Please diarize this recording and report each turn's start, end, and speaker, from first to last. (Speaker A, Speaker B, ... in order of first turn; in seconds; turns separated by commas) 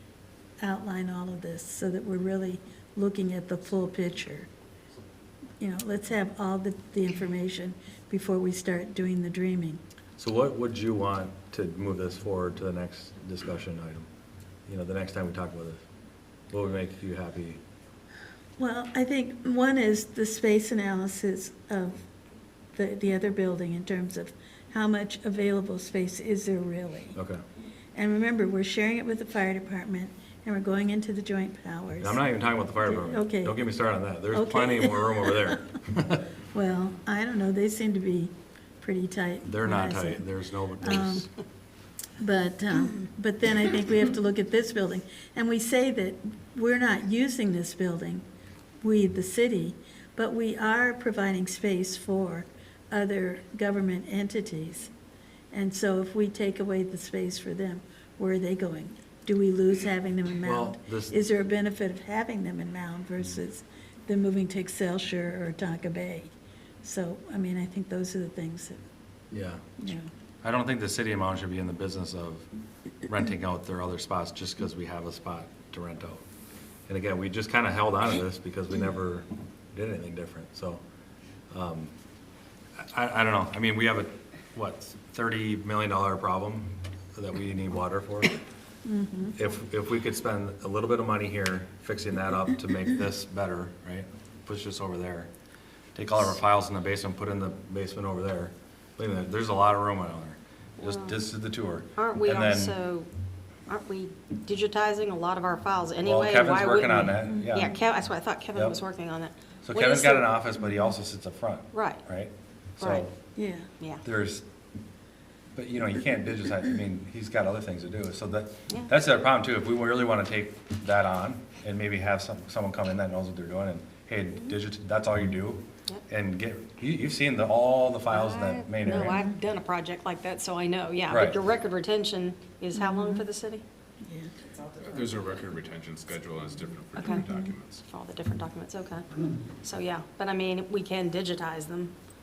Speaker A: 0.6-4.5, Speaker A: 5.6-9.8, Speaker B: 10.2-14.1, Speaker B: 14.7-15.8, Speaker B: 16.5-17.6, Speaker A: 18.6-22.1, Speaker A: 22.7-27.2, Speaker B: 27.1-27.4, Speaker A: 27.9-32.2, Speaker B: 32.0-36.3, Speaker A: 32.8-33.6, Speaker A: 34.3-35.6, Speaker A: 36.5-40.2, Speaker B: 39.5-41.3, Speaker A: 40.8-41.3, Speaker A: 42.2-48.3, Speaker A: 48.8-54.9, Speaker A: 55.5-68.8, Speaker B: 60.4-61.1, Speaker B: 69.3-69.8, Speaker A: 69.8-70.1, Speaker B: 70.4-72.5, Speaker B: 73.0-76.2, Speaker B: 76.9-80.8, Speaker B: 81.5-81.9, Speaker B: 82.8-88.4, Speaker A: 88.9-89.4, Speaker B: 89.4-95.3, Speaker B: 96.0-102.8, Speaker C: 100.8-101.2, Speaker C: 102.0-103.1, Speaker C: 103.7-110.3, Speaker B: 106.0-107.7, Speaker B: 109.6-113.1, Speaker C: 111.7-112.0, Speaker C: 112.8-113.1, Speaker A: 113.4-113.7, Speaker B: 114.0-114.4, Speaker B: 115.5-129.2, Speaker C: 128.1-133.6, Speaker B: 131.1-131.4, Speaker A: 132.8-133.2, Speaker A: 134.0-134.3, Speaker D: 134.7-137.8, Speaker C: 137.0-137.2, Speaker A: 137.1-137.5, Speaker C: 137.8-139.1, Speaker C: 139.6-141.9